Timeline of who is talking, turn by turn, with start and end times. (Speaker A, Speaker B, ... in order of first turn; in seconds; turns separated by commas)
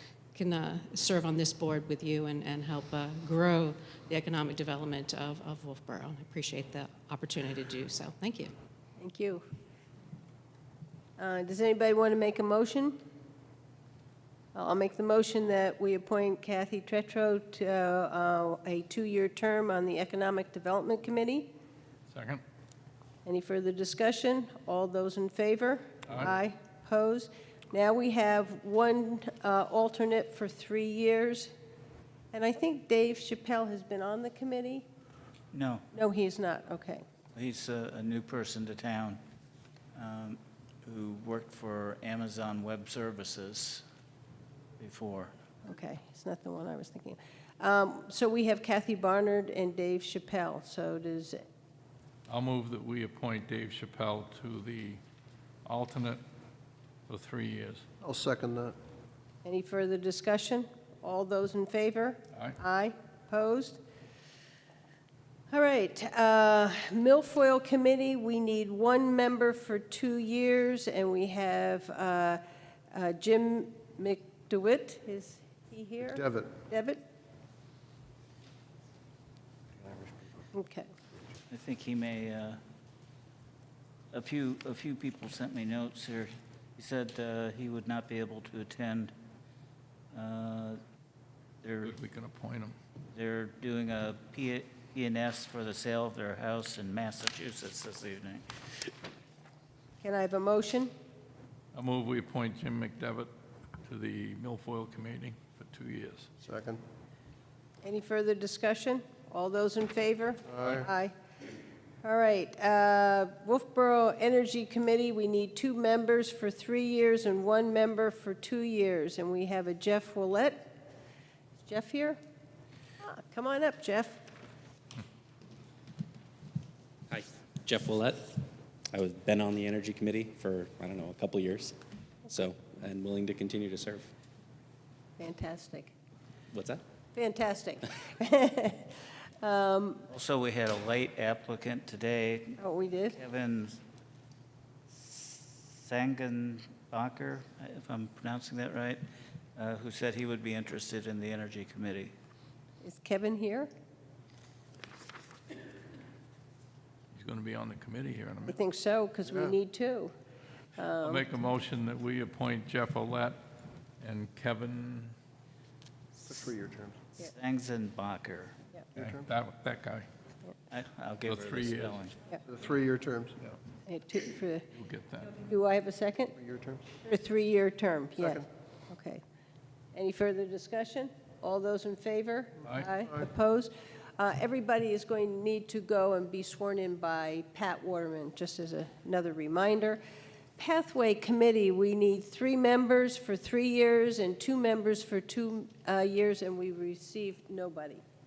Speaker A: 0.3-8.5, Speaker B: 9.0-9.4, Speaker B: 11.2-13.0, Speaker B: 14.5-21.5, Speaker C: 22.1-22.4, Speaker B: 23.2-31.5, Speaker B: 32.3-34.9, Speaker D: 35.5-35.8, Speaker B: 35.9-37.0, Speaker D: 37.3-39.2, Speaker D: 40.0-43.8, Speaker D: 44.8-45.3, Speaker B: 45.6-51.4, Speaker C: 52.3-55.0, Speaker C: 55.7-56.2, Speaker C: 57.1-57.8, Speaker E: 58.0-58.8, Speaker B: 59.4-63.8, Speaker B: 65.5-72.4, Speaker B: 72.9-77.0, Speaker E: 76.1-76.5, Speaker B: 80.5-80.9, Speaker D: 81.5-82.6, Speaker D: 84.1-89.1, Speaker D: 90.1-90.8, Speaker D: 91.6-91.9, Speaker C: 91.8-92.8, Speaker D: 93.1-98.4, Speaker B: 100.0-100.9, Speaker C: 101.7-103.3, Speaker C: 103.9-106.3, Speaker E: 106.4-106.8, Speaker B: 107.8-111.1, Speaker E: 110.5-110.9, Speaker B: 112.0-120.7, Speaker B: 121.6-122.2, Speaker B: 123.0-124.2, Speaker F: 127.1-128.3, Speaker F: 128.9-131.8, Speaker F: 132.3-134.1, Speaker B: 135.2-135.9, Speaker F: 136.5-136.8, Speaker B: 137.2-140.1, Speaker D: 140.1-142.6, Speaker B: 142.6-143.2, Speaker D: 143.1-143.8, Speaker D: 144.9-149.0, Speaker D: 149.6-152.1, Speaker B: 152.8-153.7, Speaker C: 157.1-158.6, Speaker B: 158.5-160.1, Speaker B: 160.8-161.4, Speaker C: 161.0-163.4, Speaker C: 164.0-165.1, Speaker E: 166.2-167.0, Speaker D: 167.2-168.6, Speaker E: 168.9-169.3, Speaker C: 169.0-170.0, Speaker D: 170.7-172.2, Speaker C: 171.2-172.0, Speaker E: 172.5-173.3, Speaker B: 173.8-174.7, Speaker C: 174.8-175.4, Speaker B: 175.2-176.3, Speaker E: 176.3-176.8, Speaker B: 177.0-179.2, Speaker E: 178.2-178.4, Speaker B: 179.9-190.0, Speaker B: 190.6-198.0